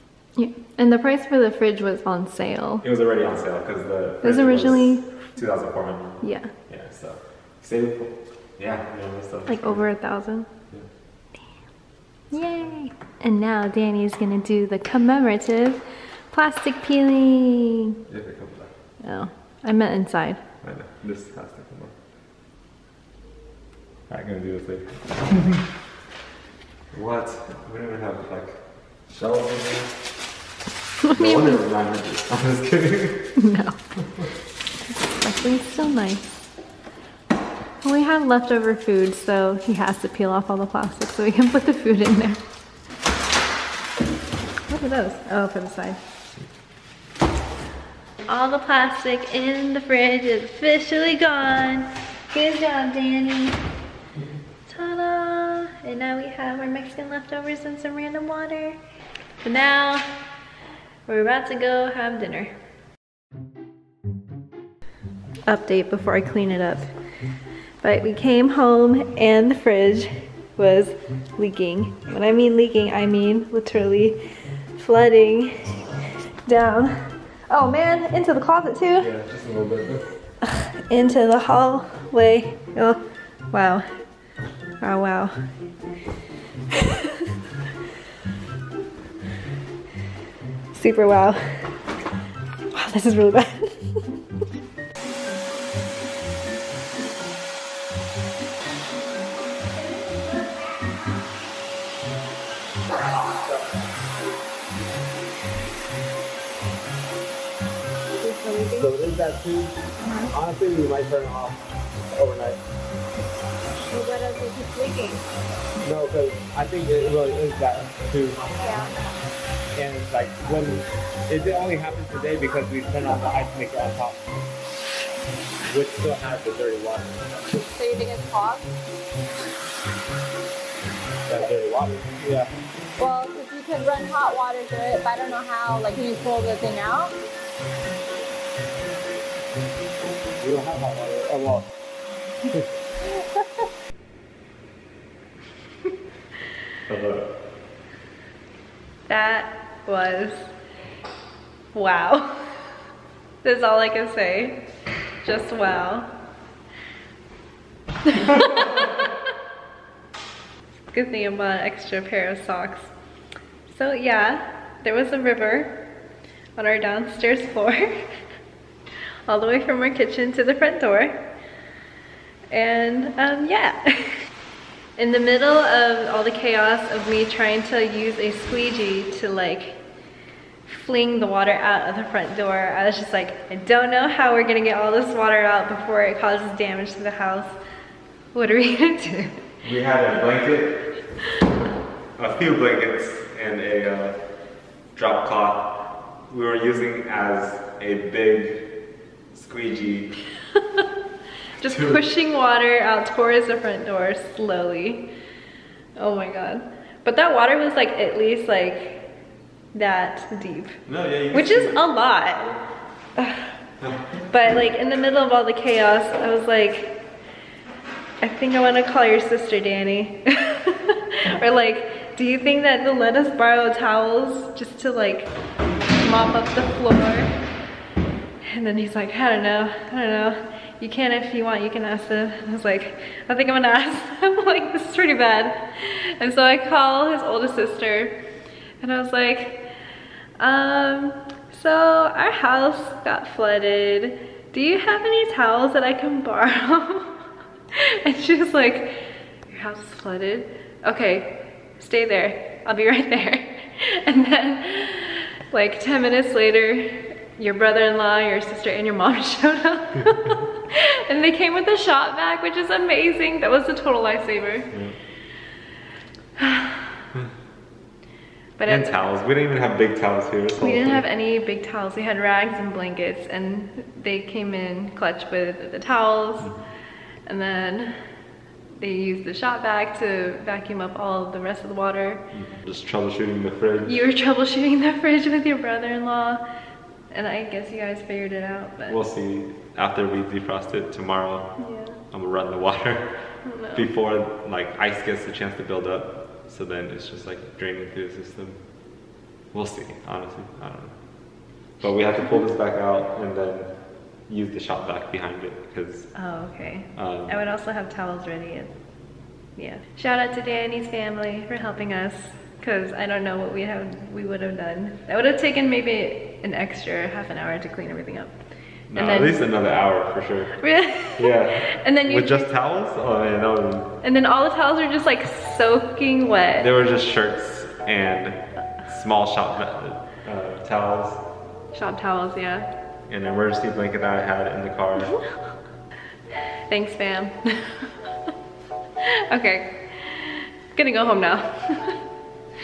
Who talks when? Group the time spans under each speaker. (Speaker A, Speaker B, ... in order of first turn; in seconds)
Speaker A: 0.3-2.8, 4.2-5.1, 6.2-6.5, 9.5-10.5, 12.3-17.7, 19.0-20.4, 31.1-31.6, 33.4-33.8, 34.9-36.2, 37.8-42.4, 44.7-46.0, 48.3-53.6, 54.6-58.8, 59.4-60.0, 61.0-62.5, 65.5-66.9, 67.8-74.2, 74.7-75.8, 76.4-76.9, 77.5-79.1, 80.4-83.0, 83.5-83.8, 84.8-85.3, 90.7-91.4, 92.7-94.0, 149.1-150.5, 151.7-152.4, 153.4-154.6, 155.2-156.1, 158.0-158.8, 160.9-162.9, 163.7-165.8, 166.6-167.9, 169.3-171.2, 172.5-174.2, 174.9-179.8, 180.6-187.6, 188.3-189.4, 201.6-205.1, 205.9-209.1, 209.7-210.8, 211.3-212.6, 213.2-213.6, 214.3-217.0, 218.2-225.3, 225.9-227.3, 228.4-238.1, 238.8-239.7, 240.4-247.2, 247.7-264.7, 266.4-266.9, 268.6-268.9, 270.6-276.5, 277.2-277.9, 278.8-282.2, 283.8-286.4, 287.1-289.0, 291.6-292.0, 293.4-293.9, 306.1-308.7, 309.6-318.3, 318.9-319.4, 320.6-322.4, 324.0-326.7, 331.7-332.6, 336.7-338.1, 339.0-342.0
Speaker B: 2.8-9.8, 18.1-18.7, 20.6-21.9, 24.1-25.6, 26.9-30.0, 31.1-33.4, 79.0-80.1, 146.9-147.3, 189.6-191.0, 192.2-194.2, 194.9-198.8, 199.3-200.2, 201.6-202.0, 210.8-211.9, 213.8-214.2, 264.7-264.9, 268.6-271.0, 282.3-284.0, 288.9-291.5, 292.1-298.6, 299.5-306.1, 306.9-307.4, 318.9-320.6, 321.1-323.9, 326.6-331.2, 333.1-335.2
Speaker C: 108.2-108.9, 113.8-115.2, 118.6-118.9, 127.5-128.7, 133.0-137.1
Speaker D: 108.8-109.7, 110.3-111.6, 112.1-112.6, 115.8-118.4, 119.7-124.2, 125.7-127.3, 131.3-132.5, 140.4-141.7